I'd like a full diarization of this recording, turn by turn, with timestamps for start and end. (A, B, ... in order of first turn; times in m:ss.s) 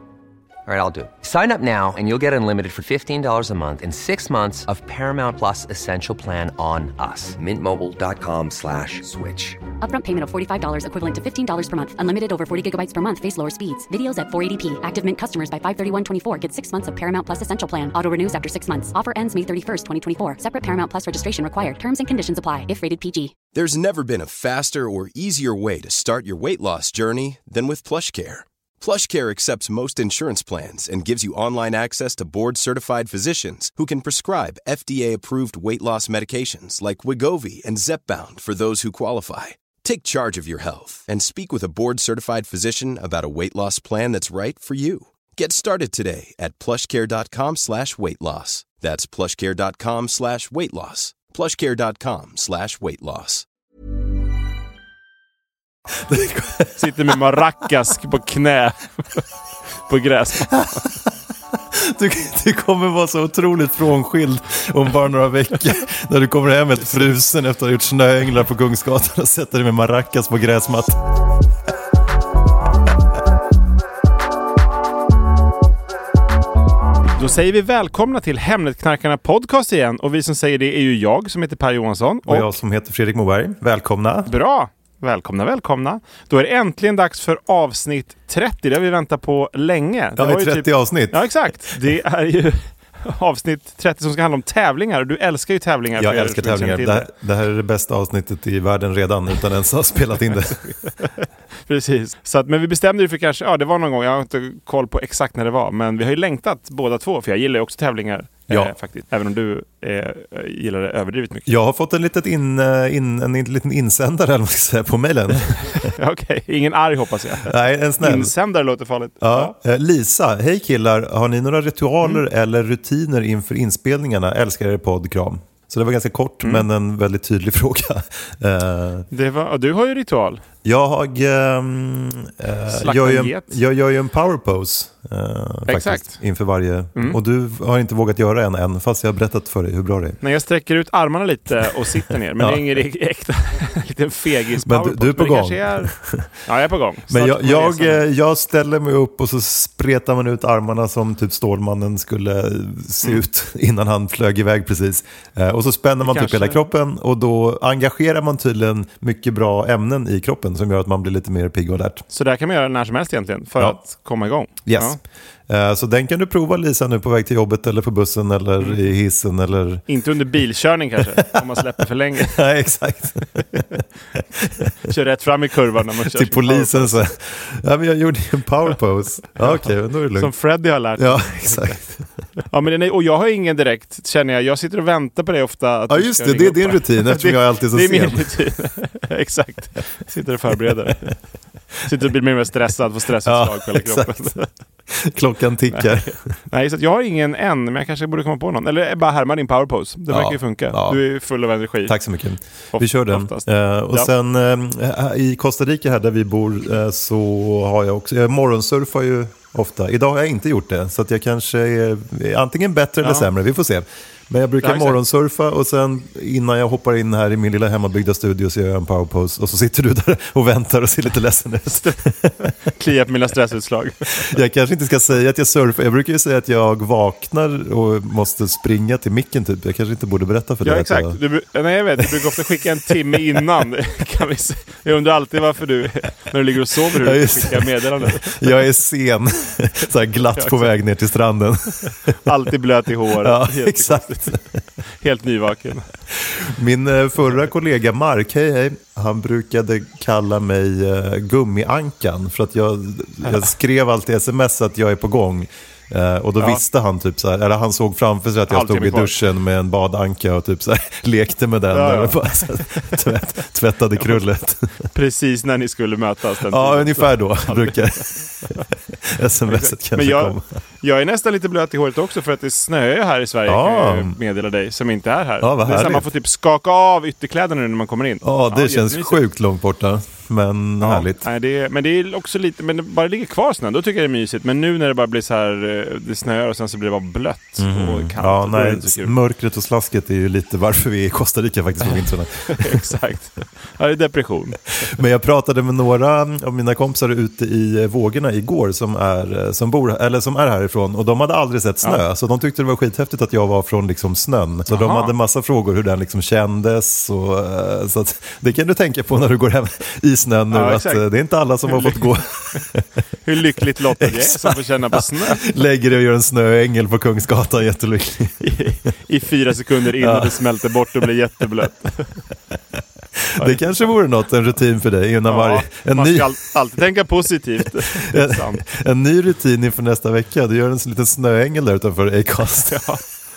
0:00.7-0:09.6 A
0:09.8-0:23.3 B
0:23.6-0:53.5 C
0:55.9-0:57.2 D
0:56.8-0:59.2 E
0:59.9-1:00.9 E
1:00.5-1:11.0 D
1:17.2-1:22.6 E
1:22.3-1:24.3 D
1:24.3-1:37.1 E
1:30.2-1:31.7 D
1:36.0-1:40.6 D
1:41.0-1:51.5 E
1:48.5-1:48.7 D
1:51.5-1:55.9 D
1:55.8-1:59.6 E
1:57.4-1:58.3 D
1:59.2-2:09.1 D
2:09.1-2:10.4 E
2:10.6-2:20.2 D
2:12.7-2:13.6 E
2:15.7-2:16.2 E
2:20.2-2:28.0 E
2:22.4-2:22.8 D
2:24.6-2:26.3 D
2:27.1-2:42.0 D
2:36.0-2:36.6 E
2:42.1-2:45.0 E
2:44.6-2:49.8 D
2:48.6-2:48.9 E
2:49.9-2:52.4 E
2:51.0-2:51.4 D
2:52.2-2:54.7 D
2:54.8-2:57.0 E
2:56.0-3:00.4 D
2:59.4-3:01.8 E
3:01.0-3:02.0 D
3:02.4-3:11.2 E
3:05.9-3:08.3 D
3:11.8-3:14.5 E
3:13.2-3:14.3 D
3:14.9-3:16.2 D
3:15.7-3:22.0 E
3:20.1-3:21.0 D
3:21.8-3:42.5 D
3:22.7-3:24.1 E
3:33.0-3:33.3 E
3:34.6-3:35.0 E
3:41.8-3:44.4 E
3:44.2-3:51.2 D
3:50.6-3:58.6 E
3:52.0-3:52.2 D
3:56.9-4:02.2 D
4:00.3-4:00.7 E
4:02.2-4:04.4 E
4:03.2-4:04.6 D
4:05.0-4:05.9 E
4:06.1-4:24.7 D
4:18.5-4:19.2 E
4:21.7-4:22.9 E
4:24.9-4:28.7 E
4:26.5-4:30.5 D
4:29.5-4:39.2 E
4:33.5-4:34.2 D
4:35.4-4:36.1 D
4:38.2-4:41.2 D
4:40.8-4:49.2 E
4:47.6-4:52.9 D
4:52.5-4:54.6 E
4:54.8-5:12.9 D
5:04.7-5:05.1 E
5:10.5-5:11.0 E
5:11.7-5:12.6 E
5:13.2-5:15.5 E
5:14.0-5:18.4 D
5:18.4-5:22.2 E
5:20.0-5:20.4 D
5:23.2-5:26.4 D
5:23.4-5:23.8 E
5:25.3-5:28.6 E
5:27.9-5:32.8 D
5:32.6-5:33.0 E